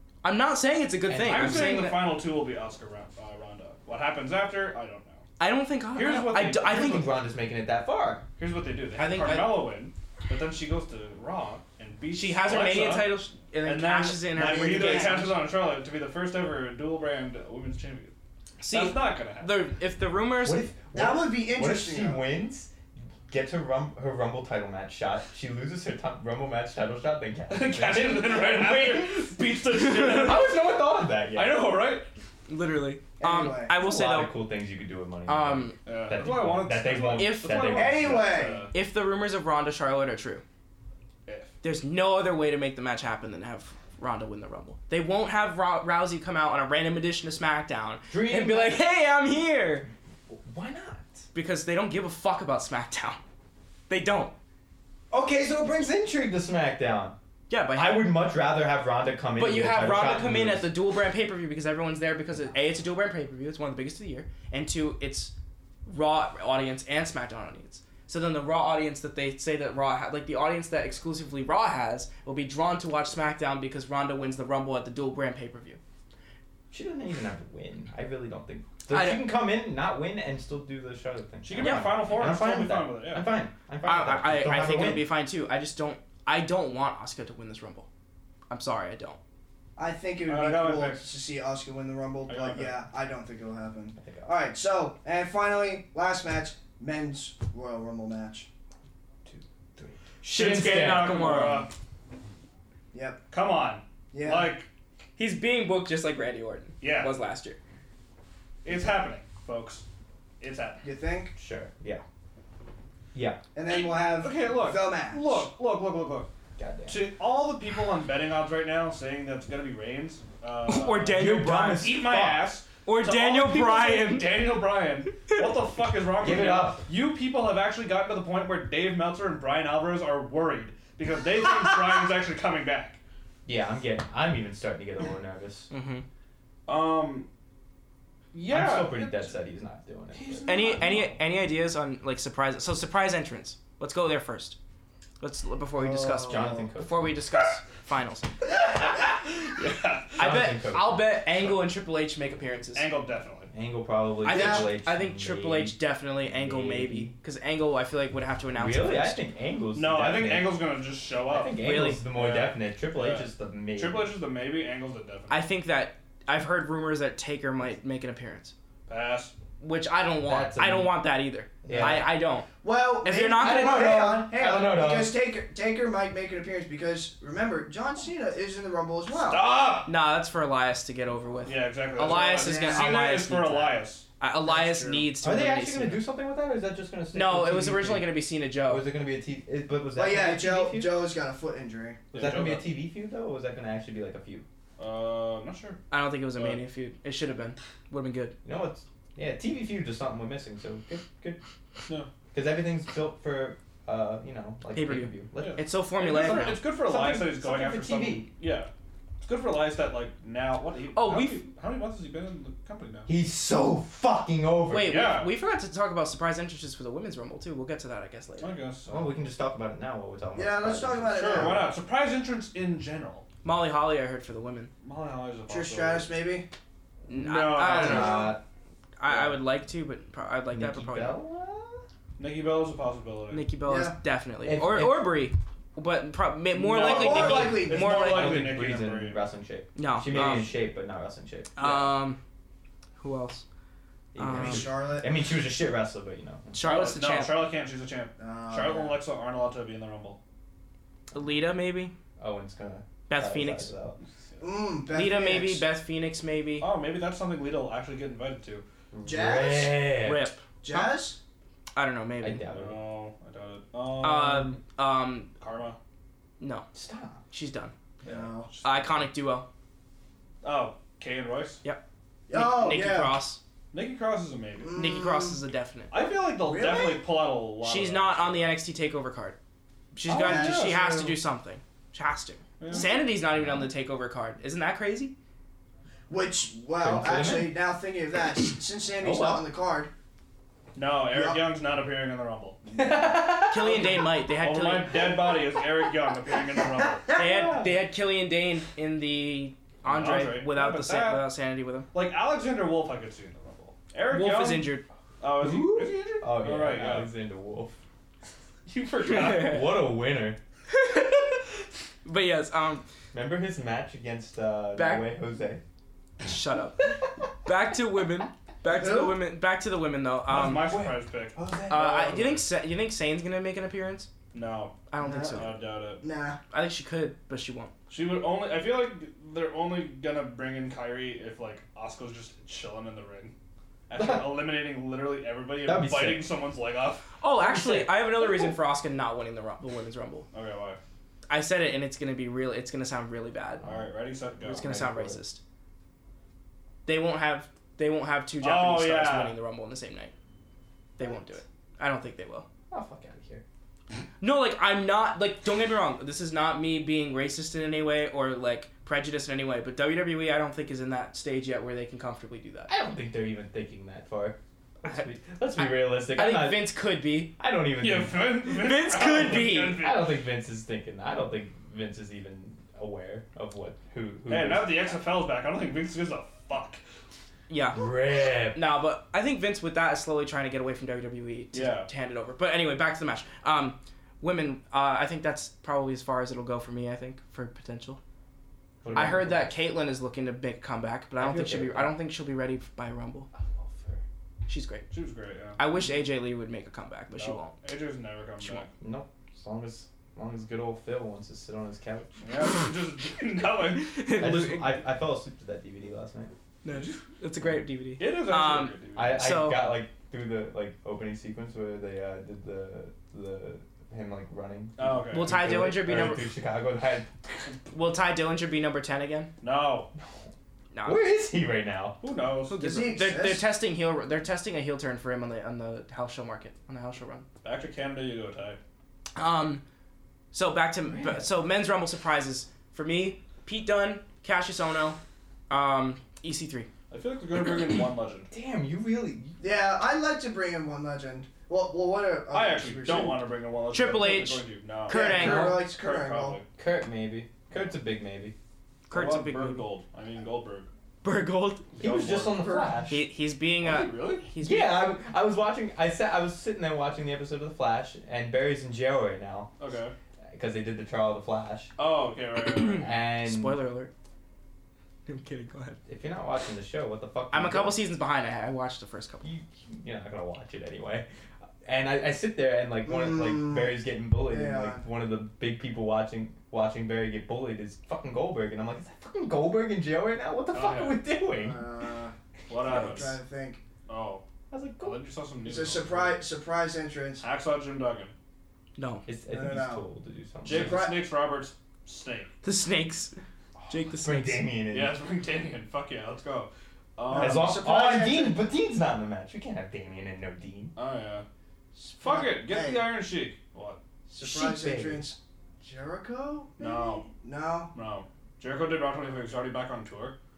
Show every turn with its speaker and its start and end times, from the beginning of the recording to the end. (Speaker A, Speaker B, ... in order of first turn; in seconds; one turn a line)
Speaker A: 0.2-2.1
Speaker B: 1.1-1.9
Speaker C: 1.2-5.2
Speaker A: 5.4-7.1
Speaker C: 5.9-7.0
Speaker B: 6.6-8.2
Speaker C: 8.4-18.1
Speaker A: 9.0-9.7
Speaker A: 12.1-15.4
Speaker D: 14.4-15.3
Speaker A: 18.6-20.7
Speaker C: 18.7-19.6
Speaker B: 20.4-22.7
Speaker D: 20.9-22.2
Speaker B: 23.3-31.6
Speaker C: 27.5-30.7
Speaker C: 31.3-32.0
Speaker A: 32.5-34.3
Speaker D: 33.2-33.8
Speaker B: 33.7-38.6
Speaker A: 35.3-35.8
Speaker C: 35.9-38.7
Speaker A: 37.1-37.8
Speaker D: 37.7-38.7
Speaker A: 38.7-40.4
Speaker C: 41.2-41.5
Speaker A: 41.6-49.9
Speaker B: 48.1-48.8
Speaker B: 50.3-51.2
Speaker A: 51.3-53.2
Speaker A: 53.9-54.3
Speaker B: 55.1-57.1
Speaker A: 57.5-58.2
Speaker B: 57.7-60.7
Speaker A: 59.4-65.3
Speaker A: 65.8-75.8
Speaker B: 76.7-85.1
Speaker A: 78.9-79.3
Speaker C: 81.4-83.3
Speaker A: 81.6-81.9
Speaker A: 83.8-87.9
Speaker A: 88.5-89.2
Speaker D: 89.8-98.5
Speaker C: 90.2-91.0
Speaker C: 92.3-92.8
Speaker B: 94.0-94.3
Speaker B: 99.2-101.1
Speaker A: 100.2-101.7
Speaker C: 100.3-101.7
Speaker D: 102.9-103.2
Speaker C: 103.3-104.7
Speaker D: 104.1-104.5
Speaker A: 105.2-107.6
Speaker C: 106.8-107.1
Speaker C: 108.6-109.8
Speaker C: 110.4-110.8
Speaker D: 110.8-111.3
Speaker B: 111.3-112.0
Speaker B: 113.1-113.4
Speaker D: 113.5-115.5
Speaker C: 113.7-116.3
Speaker B: 116.6-117.1
Speaker C: 116.9-133.0
Speaker A: 120.7-121.9
Speaker B: 121.1-122.5
Speaker A: 122.8-124.4
Speaker B: 126.2-126.8
Speaker B: 133.4-135.7
Speaker A: 135.7-136.0
Speaker C: 136.7-137.3
Speaker C: 138.3-139.3
Speaker B: 138.5-140.5
Speaker C: 140.1-141.2
Speaker A: 140.4-144.6
Speaker A: 145.2-148.3
Speaker D: 145.8-146.7
Speaker B: 146.3-147.2
Speaker C: 148.8-150.2
Speaker B: 150.2-151.4
Speaker A: 150.2-152.9
Speaker C: 152.7-153.5
Speaker B: 153.5-157.2
Speaker A: 154.2-159.2
Speaker D: 154.3-154.7
Speaker B: 158.5-160.6
Speaker C: 159.7-165.5
Speaker B: 161.3-164.1
Speaker A: 161.6-162.0
Speaker A: 165.3-168.5
Speaker C: 168.9-169.3
Speaker A: 169.6-172.5
Speaker B: 170.2-171.1
Speaker B: 171.6-172.1
Speaker D: 172.6-179.5
Speaker A: 173.0-173.9
Speaker B: 173.3-175.2
Speaker C: 179.2-179.9
Speaker A: 179.8-186.0
Speaker C: 181.4-184.1
Speaker D: 182.0-183.0
Speaker D: 184.4-185.1
Speaker B: 185.2-191.1
Speaker A: 187.1-188.9
Speaker D: 189.9-192.1
Speaker C: 192.1-192.6
Speaker B: 192.1-194.4
Speaker C: 194.8-195.8
Speaker A: 195.9-198.3
Speaker C: 196.3-196.6
Speaker B: 198.4-201.4
Speaker B: 202.3-208.3
Speaker A: 204.7-206.6
Speaker C: 205.4-208.7
Speaker C: 209.2-213.1
Speaker A: 210.9-211.4
Speaker B: 213.1-215.0
Speaker A: 214.7-218.5
Speaker C: 214.8-215.3
Speaker C: 218.4-219.1
Speaker B: 218.9-221.6
Speaker D: 220.3-221.7
Speaker C: 221.1-223.2
Speaker A: 223.4-224.7
Speaker C: 224.8-226.1
Speaker D: 225.5-226.5
Speaker A: 227.1-228.3
Speaker C: 227.1-228.3
Speaker B: 227.7-228.4
Speaker D: 227.9-228.3
Speaker A: 229.0-231.2
Speaker C: 229.1-229.4
Speaker B: 230.5-231.8
Speaker C: 232.2-233.4
Speaker A: 233.3-238.4
Speaker D: 233.6-234.0
Speaker B: 234.4-235.1
Speaker C: 236.6-239.2
Speaker B: 236.7-241.9
Speaker D: 236.8-238.2
Speaker A: 239.8-240.6
Speaker A: 241.6-242.2
Speaker A: 243.0-243.4
Speaker B: 244.1-246.6
Speaker A: 244.2-244.7
Speaker D: 244.3-245.1
Speaker A: 246.5-247.4
Speaker C: 246.6-250.2
Speaker D: 248.2-249.0
Speaker A: 251.1-251.9
Speaker B: 252.2-254.0
Speaker A: 253.1-253.7
Speaker C: 254.0-254.4
Speaker D: 254.4-255.7
Speaker A: 254.9-256.7
Speaker C: 256.6-258.6
Speaker B: 258.9-260.3
Speaker D: 259.0-259.9
Speaker A: 260.0-261.0
Speaker D: 260.6-261.2
Speaker A: 261.7-262.4
Speaker B: 262.2-262.8
Speaker C: 262.5-264.6
Speaker A: 264.0-265.3
Speaker C: 265.4-265.8
Speaker A: 266.4-266.6
Speaker B: 266.7-267.2
Speaker A: 267.3-267.7
Speaker C: 268.0-269.0
Speaker D: 268.0-268.5
Speaker A: 268.6-269.4
Speaker C: 270.4-271.6
Speaker A: 271.6-273.4
Speaker D: 272.3-273.2
Speaker C: 273.7-274.8
Speaker D: 274.6-275.4
Speaker A: 274.7-275.9
Speaker C: 275.9-278.5
Speaker D: 276.0-277.0
Speaker A: 277.6-279.4
Speaker A: 279.9-285.1
Speaker D: 280.1-281.2
Speaker C: 280.1-280.8
Speaker C: 282.6-283.0
Speaker B: 283.3-283.7
Speaker D: 286.1-289.9
Speaker B: 286.8-287.6
Speaker B: 289.0-289.4
Speaker C: 290.7-292.6
Speaker D: 291.1-291.4
Speaker B: 292.7-293.9
Speaker A: 293.4-295.1
Speaker C: 293.6-297.6
Speaker A: 297.1-301.9
Speaker D: 297.1-297.6
Speaker C: 299.8-301.3
Speaker C: 301.9-307.1
Speaker A: 304.1-304.8
Speaker B: 305.3-307.8
Speaker C: 308.7-309.6
Speaker A: 309.0-309.8
Speaker B: 309.1-310.4
Speaker A: 310.7-311.4
Speaker A: 312.0-312.8
Speaker B: 313.1-315.6
Speaker A: 314.8-315.1
Speaker A: 316.2-320.7
Speaker D: 318.6-319.2
Speaker C: 320.3-322.4
Speaker B: 320.6-321.9
Speaker A: 321.7-324.1
Speaker C: 324.3-326.0
Speaker A: 324.9-325.6
Speaker D: 325.0-326.4
Speaker A: 326.5-327.7
Speaker C: 327.9-333.3
Speaker C: 333.9-337.1
Speaker B: 333.9-334.3
Speaker B: 335.6-336.3
Speaker A: 337.2-340.2
Speaker B: 337.4-337.9
Speaker C: 340.3-340.8
Speaker A: 341.3-343.6
Speaker C: 343.6-344.6
Speaker B: 344.4-345.2
Speaker A: 344.4-345.4
Speaker A: 346.8-350.1
Speaker C: 348.4-349.3
Speaker A: 351.0-352.5
Speaker B: 352.7-353.4
Speaker A: 354.2-362.7
Speaker B: 362.7-366.8
Speaker A: 364.8-367.3
Speaker B: 367.4-368.3
Speaker C: 367.8-370.2
Speaker A: 368.5-369.8
Speaker B: 369.7-374.9
Speaker C: 374.3-376.8
Speaker A: 377.5-377.9
Speaker B: 377.7-378.6
Speaker A: 378.4-388.0
Speaker C: 381.5-381.9
Speaker B: 388.8-389.5
Speaker A: 388.9-393.3
Speaker B: 391.2-391.9
Speaker B: 393.3-394.0
Speaker A: 394.5-394.9
Speaker C: 394.9-395.6
Speaker A: 395.6-397.5
Speaker C: 397.1-398.7
Speaker B: 398.8-402.1
Speaker C: 402.2-403.9
Speaker A: 403.7-404.8
Speaker B: 404.2-406.3
Speaker A: 406.6-409.7
Speaker C: 408.0-409.2
Speaker B: 408.9-417.5
Speaker C: 414.8-416.2
Speaker A: 415.1-416.2
Speaker A: 417.7-419.3
Speaker C: 419.4-419.9
Speaker A: 420.7-421.0
Speaker B: 420.8-422.0
Speaker C: 422.0-422.9
Speaker D: 422.6-423.5
Speaker A: 422.6-427.2
Speaker C: 427.4-428.6
Speaker A: 429.1-429.6
Speaker A: 430.3-435.0
Speaker B: 430.9-431.3
Speaker A: 435.5-436.7
Speaker C: 436.9-438.3
Speaker B: 438.3-439.4
Speaker D: 439.4-443.3
Speaker C: 442.3-446.4
Speaker A: 443.7-445.6
Speaker D: 444.9-446.4
Speaker B: 445.2-445.6
Speaker B: 446.6-448.3
Speaker A: 448.9-449.6
Speaker C: 448.9-450.7
Speaker A: 451.0-451.7
Speaker B: 451.8-453.1
Speaker C: 451.8-452.3
Speaker D: 451.8-452.8
Speaker A: 452.9-454.9
Speaker C: 453.6-454.3
Speaker B: 454.3-459.5
Speaker C: 459.6-459.9
Speaker B: 460.3-461.7
Speaker C: 461.8-462.9
Speaker A: 462.6-463.9
Speaker B: 462.7-463.6
Speaker A: 465.1-465.8
Speaker B: 465.9-467.8
Speaker A: 467.3-469.2
Speaker B: 469.2-471.1
Speaker B: 471.6-481.6
Speaker D: 472.9-474.8
Speaker C: 480.5-481.0
Speaker D: 481.3-482.1
Speaker C: 482.5-483.2
Speaker D: 482.6-483.6
Speaker A: 482.7-483.0
Speaker C: 483.9-484.2
Speaker B: 484.5-485.0
Speaker C: 484.8-486.2
Speaker D: 485.4-487.2
Speaker C: 487.2-488.1
Speaker A: 488.8-489.1
Speaker B: 489.1-490.9
Speaker D: 489.3-489.8
Speaker D: 490.4-491.0
Speaker C: 490.4-492.3
Speaker A: 492.4-493.2
Speaker A: 493.7-494.4
Speaker B: 494.0-494.9
Speaker C: 494.7-497.6
Speaker D: 497.1-498.4
Speaker B: 497.1-500.7
Speaker C: 500.8-501.2
Speaker D: 501.7-502.9
Speaker C: 502.0-503.8
Speaker D: 504.1-507.7
Speaker B: 504.2-505.0
Speaker C: 506.6-507.1
Speaker C: 507.7-510.2